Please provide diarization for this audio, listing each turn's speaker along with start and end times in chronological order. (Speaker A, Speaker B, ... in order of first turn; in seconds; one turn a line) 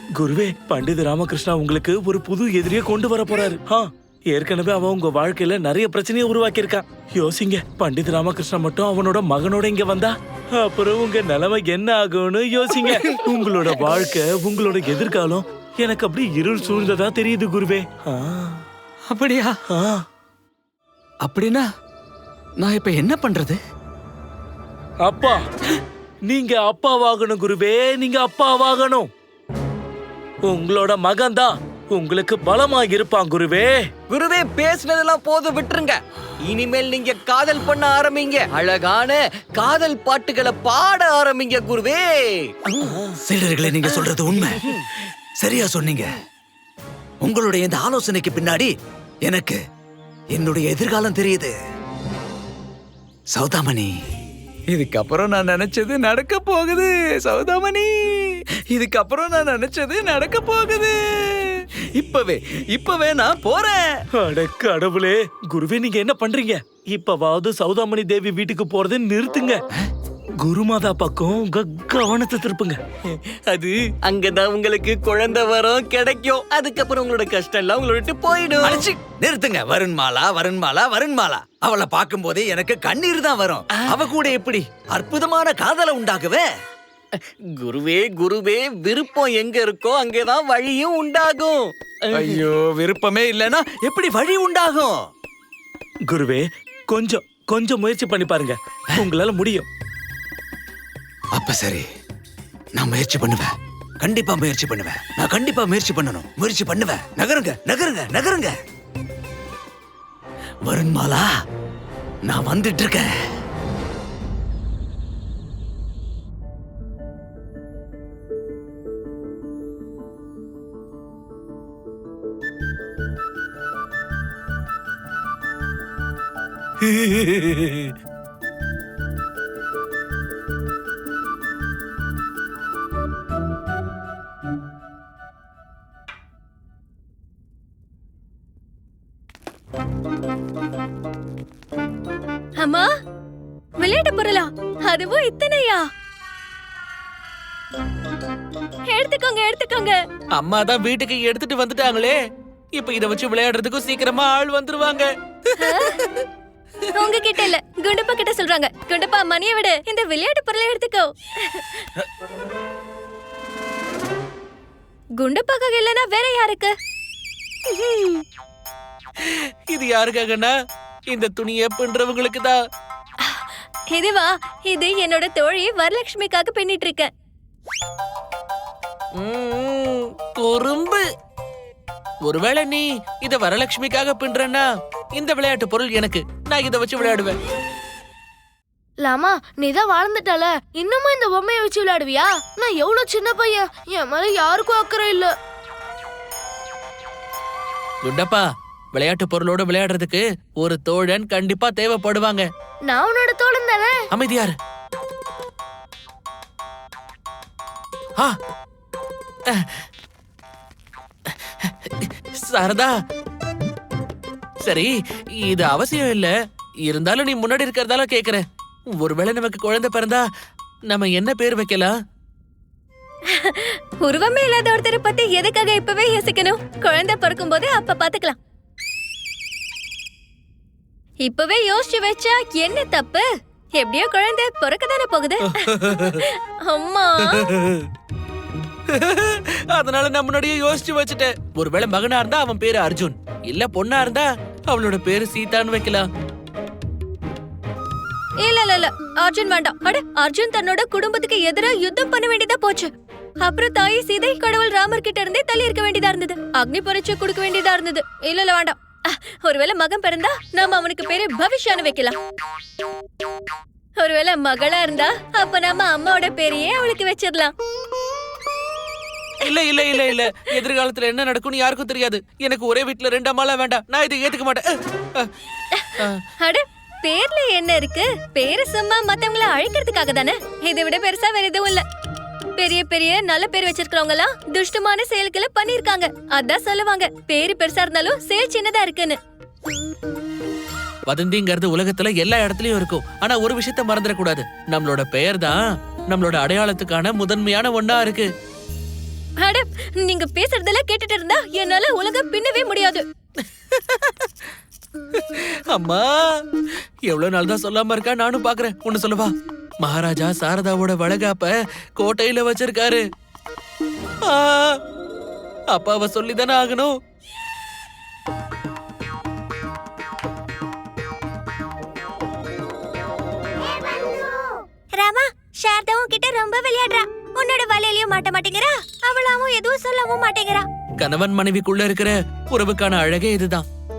Speaker A: 0.2-18.6
Speaker B: 19.1-19.6
Speaker A: 19.7-20.0
Speaker B: 21.2-21.6
Speaker B: 22.6-23.6
Speaker A: 25.0-25.4
Speaker A: 26.3-29.1
Speaker A: 30.5-33.9
Speaker C: 34.1-43.0
Speaker B: 43.2-44.6
Speaker C: 43.9-44.8
Speaker B: 45.4-46.1
Speaker B: 47.2-48.7
Speaker B: 49.3-49.6
Speaker B: 50.3-51.5
Speaker B: 53.3-53.9
Speaker B: 54.7-63.9
Speaker A: 64.2-69.6
Speaker A: 70.4-72.8
Speaker C: 73.5-78.8
Speaker B: 78.6-86.5
Speaker C: 83.8-84.1
Speaker C: 87.6-92.4
Speaker B: 92.1-95.0
Speaker A: 96.1-99.7
Speaker B: 101.3-101.9
Speaker B: 102.8-108.5
Speaker B: 110.7-111.3
Speaker B: 112.2-113.1
Speaker D: 126.8-127.9
Speaker E: 142.6-142.9
Speaker E: 143.8-145.9
Speaker E: 148.9-150.0
Speaker D: 150.4-152.2
Speaker D: 152.8-155.1
Speaker E: 155.6-156.0
Speaker D: 155.6-156.1
Speaker E: 157.0-161.9
Speaker E: 165.2-166.7
Speaker E: 167.8-168.2
Speaker D: 169.3-170.5
Speaker D: 171.1-172.6
Speaker E: 173.2-177.1
Speaker D: 179.2-181.0
Speaker D: 182.3-187.4
Speaker F: 189.0-195.3
Speaker D: 198.0-198.4
Speaker D: 198.9-202.5
Speaker F: 202.8-204.1
Speaker D: 204.1-204.5
Speaker D: 209.5-209.8
Speaker D: 211.6-212.9
Speaker D: 214.6-216.3
Speaker D: 216.9-218.4
Speaker D: 219.0-220.2
Speaker D: 220.9-221.9
Speaker E: 223.3-228.4
Speaker E: 231.2-233.3
Speaker E: 233.8-237.4
Speaker D: 235.6-236.2
Speaker D: 237.4-237.8
Speaker D: 238.9-246.1
Speaker E: 248.4-252.9
Speaker E: 253.4-262.2
Speaker E: 264.0-267.5
Speaker D: 269.4-275.3
Speaker E: 275.8-281.8
Speaker E: 282.6-289.2
Speaker D: 291.1-295.6
Speaker D: 296.1-298.3
Speaker E: 299.4-303.1
Speaker D: 303.7-304.3
Speaker D: 305.2-306.3
Speaker D: 307.1-313.0
Speaker D: 314.3-314.8
Speaker D: 315.7-316.9
Speaker E: 325.0-330.7
Speaker D: 331.0-333.7